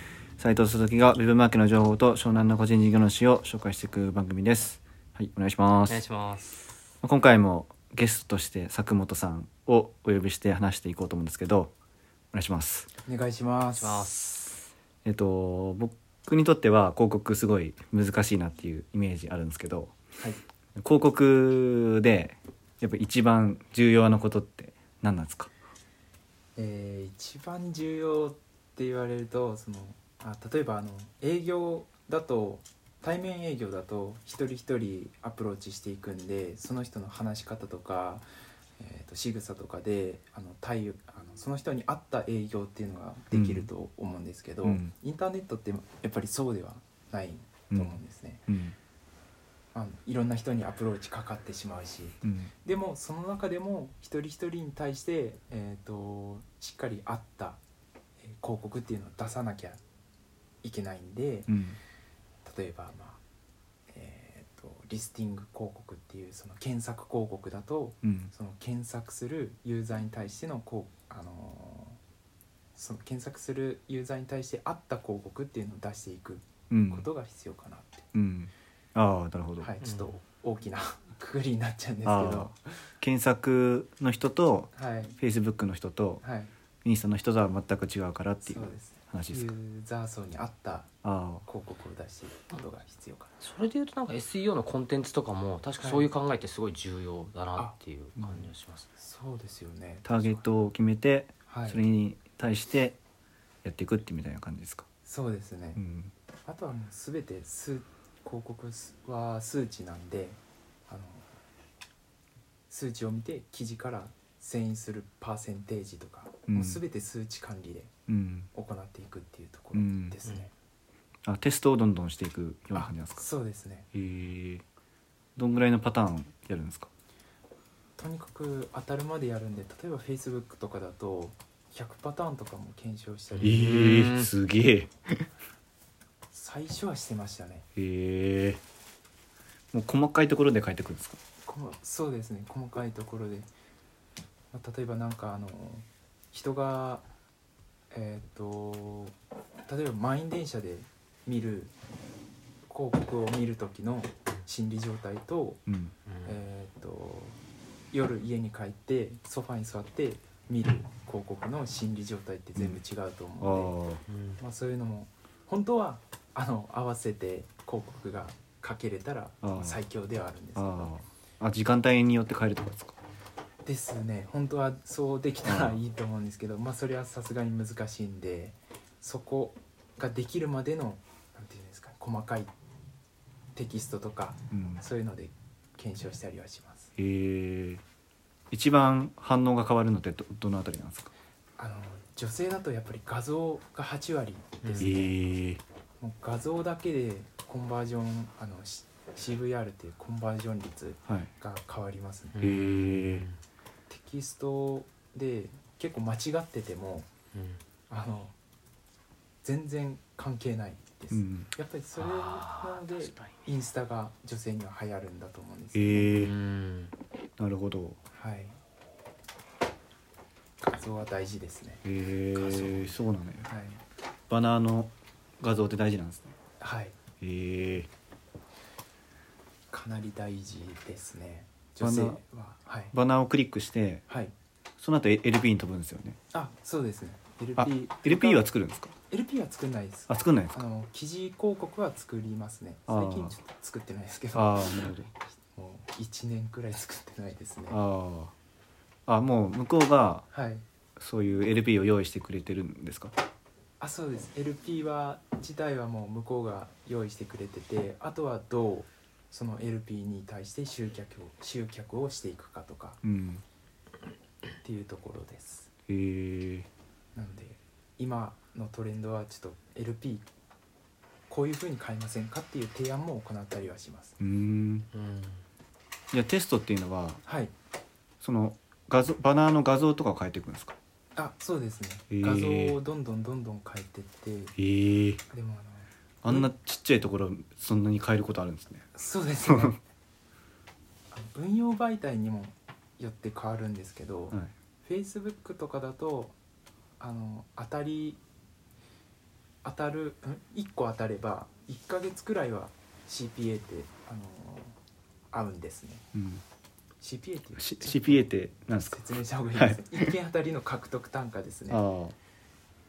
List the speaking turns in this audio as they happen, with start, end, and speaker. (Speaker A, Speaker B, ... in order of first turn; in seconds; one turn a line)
Speaker A: 0.4-6.0
Speaker B: 5.9-6.6
Speaker A: 7.0-11.7
Speaker A: 12.3-12.9
Speaker C: 13.0-14.1
Speaker B: 13.8-14.5
Speaker A: 15.0-20.0
Speaker A: 20.8-25.5
Speaker C: 26.6-38.2
Speaker C: 38.8-48.5
Speaker A: 43.3-43.7
Speaker A: 44.6-44.9
Speaker A: 47.7-48.8
Speaker C: 49.7-57.6
Speaker A: 52.2-52.5
Speaker C: 58.2-59.8
Speaker C: 60.6-61.6
Speaker A: 61.5-61.8
Speaker C: 62.4-63.2
Speaker C: 63.9-72.0
Speaker A: 68.0-68.3
Speaker C: 72.7-78.0
Speaker A: 76.7-77.1
Speaker A: 78.1-79.7
Speaker C: 79.6-82.7
Speaker B: 79.8-80.2
Speaker A: 82.0-86.2
Speaker C: 84.7-85.2
Speaker C: 86.2-86.5
Speaker A: 86.8-89.5
Speaker C: 88.4-90.9
Speaker A: 91.0-91.4
Speaker C: 91.4-93.3
Speaker B: 93.4-99.0
Speaker C: 95.8-96.1
Speaker A: 98.2-98.5
Speaker C: 99.0-100.5
Speaker A: 100.0-103.0
Speaker C: 101.5-101.8
Speaker A: 103.6-104.8
Speaker C: 105.0-105.8
Speaker A: 105.8-106.1
Speaker C: 106.4-111.3
Speaker C: 112.7-117.9
Speaker A: 116.5-116.8
Speaker A: 118.1-118.5
Speaker C: 118.5-120.5
Speaker A: 119.7-120.2
Speaker A: 121.2-123.2
Speaker C: 122.7-123.9
Speaker A: 123.9-124.6
Speaker A: 125.3-126.9
Speaker C: 128.0-133.6
Speaker B: 133.3-134.3
Speaker A: 133.4-135.2
Speaker C: 136.3-137.7
Speaker A: 137.8-138.6
Speaker A: 139.7-141.2
Speaker C: 141.4-143.5
Speaker C: 144.5-147.0
Speaker C: 147.9-149.2
Speaker C: 149.7-151.7
Speaker C: 152.7-155.7
Speaker A: 155.7-155.9
Speaker B: 156.1-156.4
Speaker C: 156.2-157.4
Speaker C: 157.9-163.8
Speaker A: 163.4-164.0
Speaker B: 164.1-164.4
Speaker C: 164.4-170.9
Speaker A: 169.4-169.8
Speaker A: 170.6-172.9
Speaker C: 173.6-182.5
Speaker A: 175.4-175.8
Speaker C: 183.5-186.9
Speaker A: 184.5-184.8
Speaker A: 187.0-187.8
Speaker A: 188.5-191.1
Speaker C: 191.6-195.1
Speaker B: 194.6-194.9
Speaker A: 194.8-195.6
Speaker C: 196.0-202.4
Speaker B: 202.3-203.4
Speaker A: 202.4-203.2
Speaker C: 203.9-207.1
Speaker B: 207.3-207.6
Speaker C: 207.9-208.3
Speaker C: 209.4-216.2
Speaker A: 211.1-211.5
Speaker B: 211.9-213.3
Speaker A: 215.7-216.3
Speaker B: 216.1-216.9
Speaker A: 217.4-218.0
Speaker C: 218.1-218.6
Speaker C: 220.6-223.8
Speaker A: 221.8-223.5
Speaker A: 224.3-226.3
Speaker C: 226.6-227.0
Speaker A: 227.2-227.9
Speaker C: 229.7-232.9
Speaker A: 231.8-232.2
Speaker A: 232.9-234.0
Speaker C: 234.1-234.3
Speaker A: 234.8-236.2
Speaker C: 236.3-238.5
Speaker A: 237.6-238.9
Speaker C: 239.1-247.8
Speaker A: 240.1-240.6
Speaker A: 242.9-243.3
Speaker A: 244.3-245.1
Speaker A: 247.7-248.3
Speaker A: 249.1-250.2
Speaker C: 250.3-250.6
Speaker A: 251.0-253.1
Speaker C: 253.8-263.0
Speaker A: 263.0-263.4
Speaker C: 264.6-265.7
Speaker A: 265.9-266.7
Speaker C: 267.1-270.2
Speaker C: 271.3-274.1
Speaker A: 274.2-274.9
Speaker B: 274.9-275.4
Speaker A: 276.1-277.2
Speaker C: 277.2-277.5
Speaker A: 278.2-280.8
Speaker C: 281.1-284.5
Speaker A: 282.1-282.8
Speaker A: 284.6-285.2
Speaker C: 285.3-286.5
Speaker A: 286.2-288.9
Speaker C: 288.9-289.8
Speaker A: 289.4-289.8
Speaker C: 291.1-296.3
Speaker C: 297.0-298.2
Speaker C: 299.6-304.8
Speaker C: 305.3-306.1
Speaker A: 306.1-306.4
Speaker C: 307.0-308.3
Speaker A: 307.6-309.0
Speaker C: 308.8-311.8
Speaker A: 309.5-310.1
Speaker A: 311.7-312.1